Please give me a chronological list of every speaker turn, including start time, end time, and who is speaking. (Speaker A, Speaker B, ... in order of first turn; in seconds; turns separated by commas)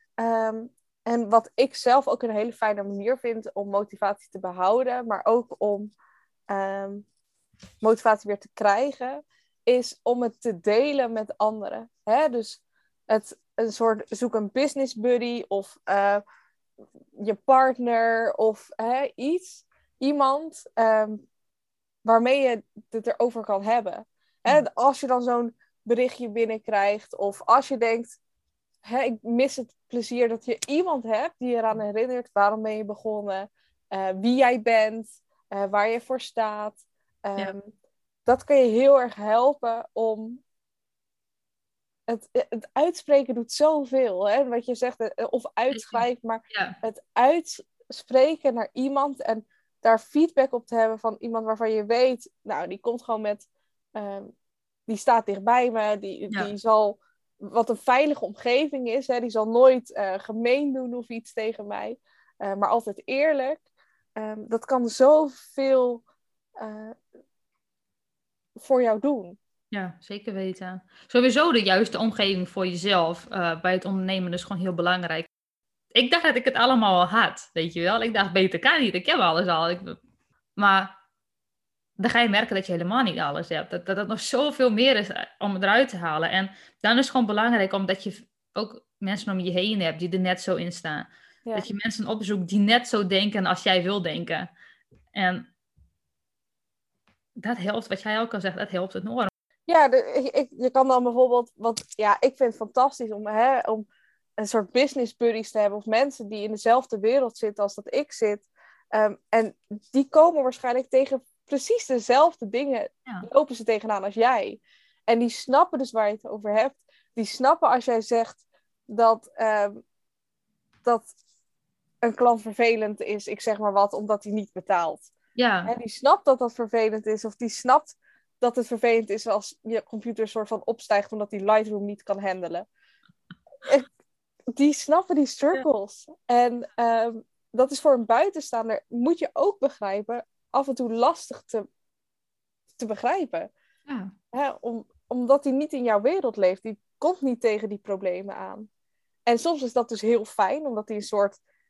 Speaker A: 0.2-5.9, Speaker A: 6.5-7.0, Speaker A: 7.8-16.2, Speaker A: 17.2-21.2, Speaker A: 22.1-28.2, Speaker A: 28.8-37.7, Speaker A: 38.3-40.4, Speaker A: 42.1-54.3, Speaker B: 45.7-46.8, Speaker A: 54.9-63.6, Speaker A: 64.2-66.0, Speaker A: 66.6-67.0, Speaker A: 68.6-69.4, Speaker B: 69.7-75.3, Speaker B: 75.9-80.0, Speaker B: 80.6-80.9, Speaker B: 82.0-94.5, Speaker B: 95.1-95.5, Speaker B: 97.4-99.3, Speaker A: 99.7-103.9, Speaker A: 104.4-119.8, Speaker A: 120.8-121.1, Speaker A: 122.0-125.1, Speaker B: 125.4-125.7, Speaker A: 125.7-132.7, Speaker A: 134.6-141.7, Speaker A: 142.8-143.5, Speaker B: 143.9-144.1, Speaker A: 144.3-148.7, Speaker A: 149.3-151.4